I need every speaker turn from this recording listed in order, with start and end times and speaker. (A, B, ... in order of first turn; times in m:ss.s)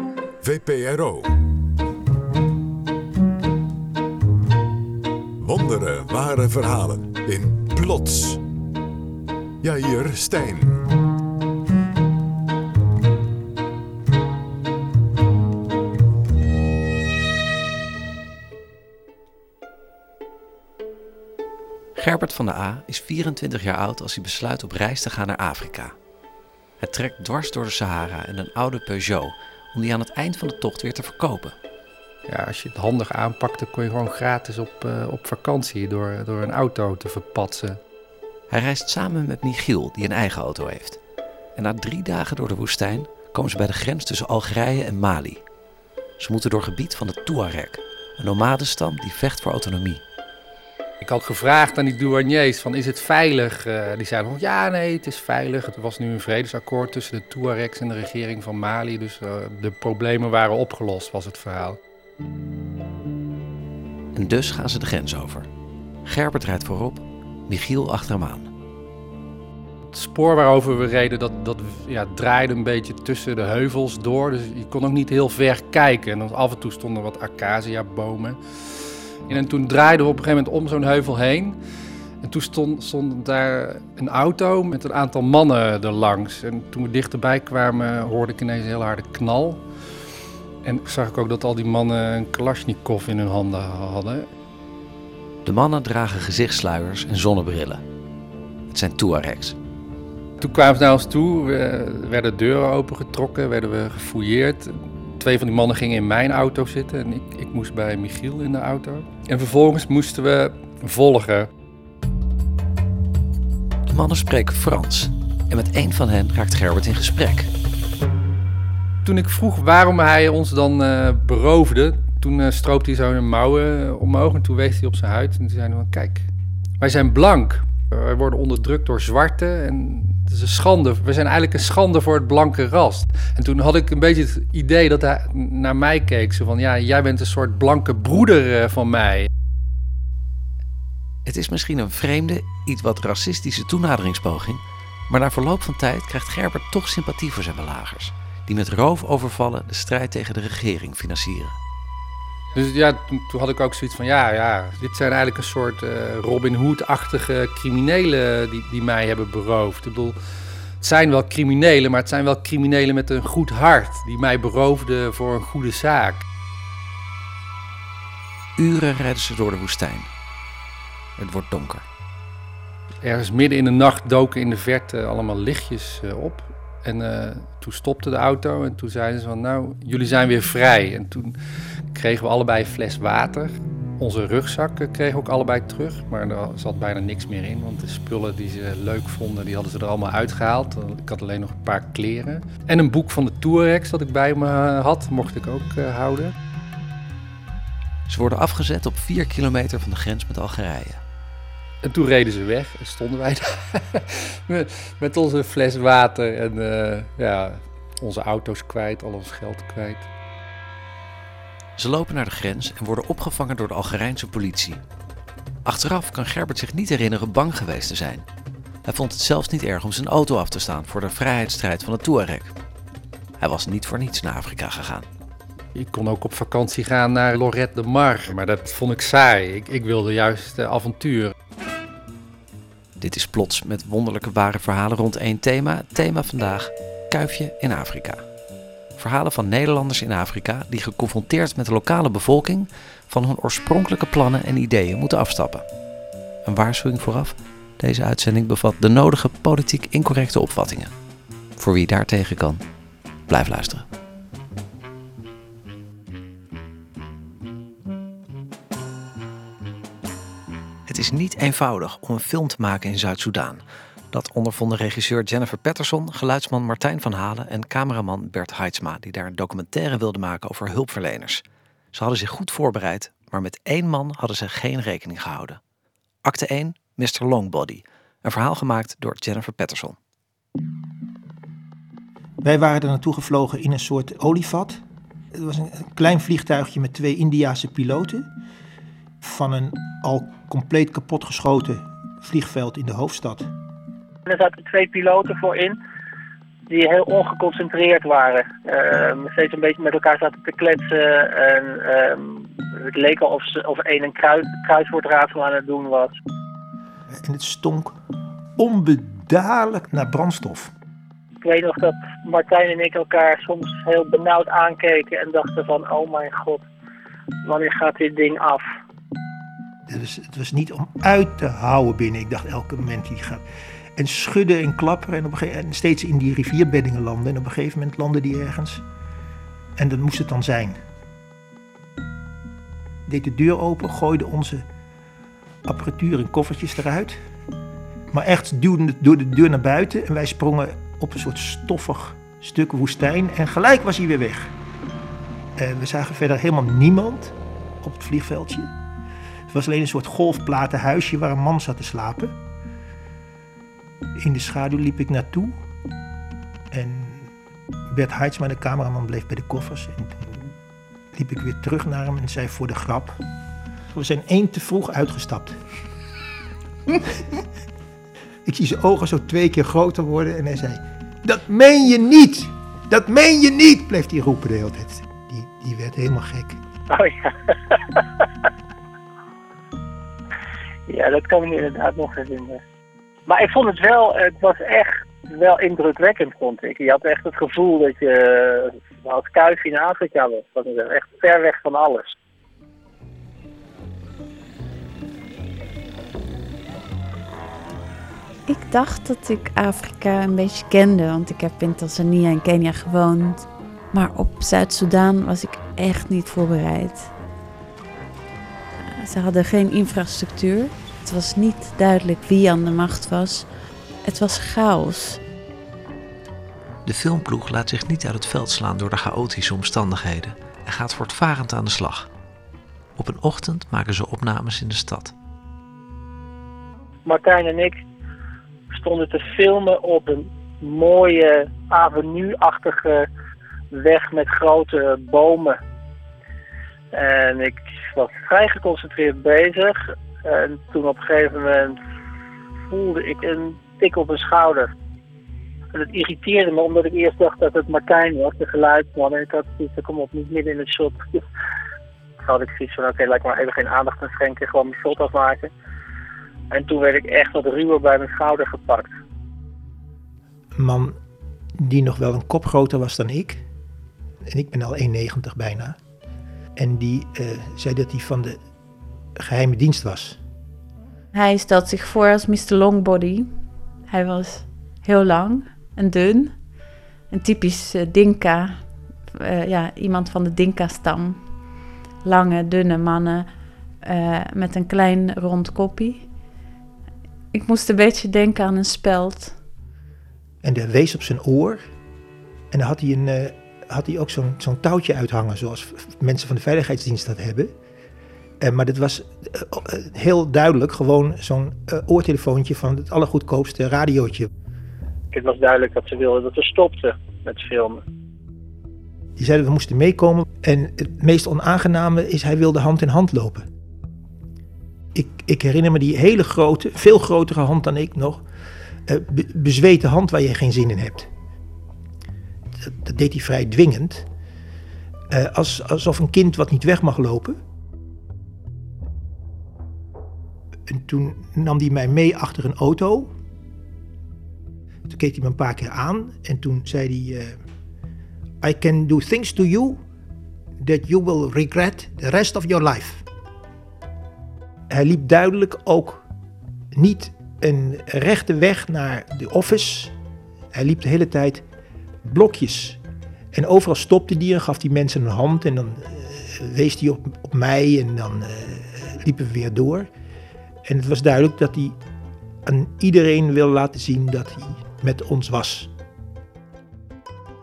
0:00.4-0:01.4 A
0:05.4-0:08.4 A
0:09.6-0:10.8 A
0:22.0-0:25.9 B
0:26.8-0:31.6 B
0:32.3-0:37.8 C
0:38.5-0:41.0 B
0:41.6-0:45.4 B
0:46.2-0:50.0 B
0:51.0-1:01.8 C
1:04.1-1:05.5 B
1:06.0-1:08.5 B
1:09.9-1:18.4 C
1:19.3-1:21.6 C
1:22.2-1:29.6 C
1:30.6-1:34.3 C
1:35.4-1:37.8 B
1:38.7-1:39.6 B
1:40.4-1:51.5 C
1:53.9-1:57.5 B
1:59.0-2:06.3 C
2:06.8-2:19.3 C
2:21.2-2:31.6 B
2:32.5-2:40.2 C
2:40.8-2:46.2 C
2:48.6-2:50.1 B
2:51.2-2:51.8 B
2:53.0-3:01.4 C
3:01.9-3:16.3 C
3:18.1-3:21.0 B
3:21.8-3:30.1 C
3:31.8-3:34.8 B
3:35.6-3:38.2 B
3:38.8-3:42.5 B
3:43.4-3:45.1 B
3:45.7-3:51.3 C
3:53.0-3:58.2 B
3:59.0-4:05.7 B
4:06.4-4:10.9 B
4:11.6-4:12.6 B
4:13.3-4:13.9 B
4:20.9-4:31.4 B
4:31.9-4:35.6 B
4:36.2-4:40.0 B
4:42.4-4:44.8 D
4:45.3-4:48.3 D
4:49.2-4:53.5 D
4:54.2-4:55.8 E
4:56.7-5:06.1 E
5:07.1-5:08.0 D
5:08.6-5:10.7 D
5:11.4-5:16.7 E
5:17.4-5:18.6 E
5:19.9-5:23.4 D
5:24.0-5:28.8 D
5:29.8-5:30.8 D
5:33.1-5:34.7 D
5:35.6-5:37.2 D
5:38.1-5:44.6 D
5:45.6-5:48.7 D
5:49.5-5:52.4 D
5:54.2-5:55.6 D
5:56.7-5:57.3 D
5:57.9-6:00.5 D
6:01.1-6:03.2 D
6:03.9-6:05.6 D
6:08.4-6:16.6 D
6:16.9-6:17.6 E
6:20.9-6:22.6 E
6:23.3-6:32.2 E
6:38.5-6:47.1 F
6:48.9-6:53.5 F
6:54.0-6:55.2 F
6:56.8-7:02.1 B
7:03.0-7:05.1 B
7:07.1-7:07.8 E
7:08.7-7:13.1 E
7:13.7-7:15.6 E
7:16.9-7:21.8 E
7:22.7-7:24.7 E
7:25.7-7:31.2 E
7:32.2-7:35.5 E
7:36.5-7:38.9 E
7:40.6-7:41.0 D
7:41.6-7:43.4 D
7:44.2-7:45.8 D
7:46.6-7:48.4 D
7:49.2-7:50.2 D
7:51.1-7:53.3 F
7:53.9-7:56.3 F
7:57.1-7:58.6 F
7:59.1-8:01.2 F
8:02.0-8:03.3 F
8:03.8-8:06.1 F
8:07.3-8:09.4 F
8:10.4-8:11.6 D
8:12.5-8:17.5 D
8:18.4-8:24.3 D
8:25.1-8:27.8 E
8:29.2-8:33.4 D
8:34.9-8:38.2 D
8:38.9-8:41.1 D
8:42.6-8:44.1 D
8:45.1-8:47.4 D
8:50.7-8:53.1 D
8:54.8-8:57.4 D
8:58.4-8:59.8 D
9:00.6-9:03.0 D
9:04.7-9:06.0 D
9:06.7-9:09.9 D
9:10.5-9:11.4 D
9:12.0-9:12.8 D
9:13.3-9:19.9 D
9:20.6-9:21.8 D
9:22.4-9:25.7 D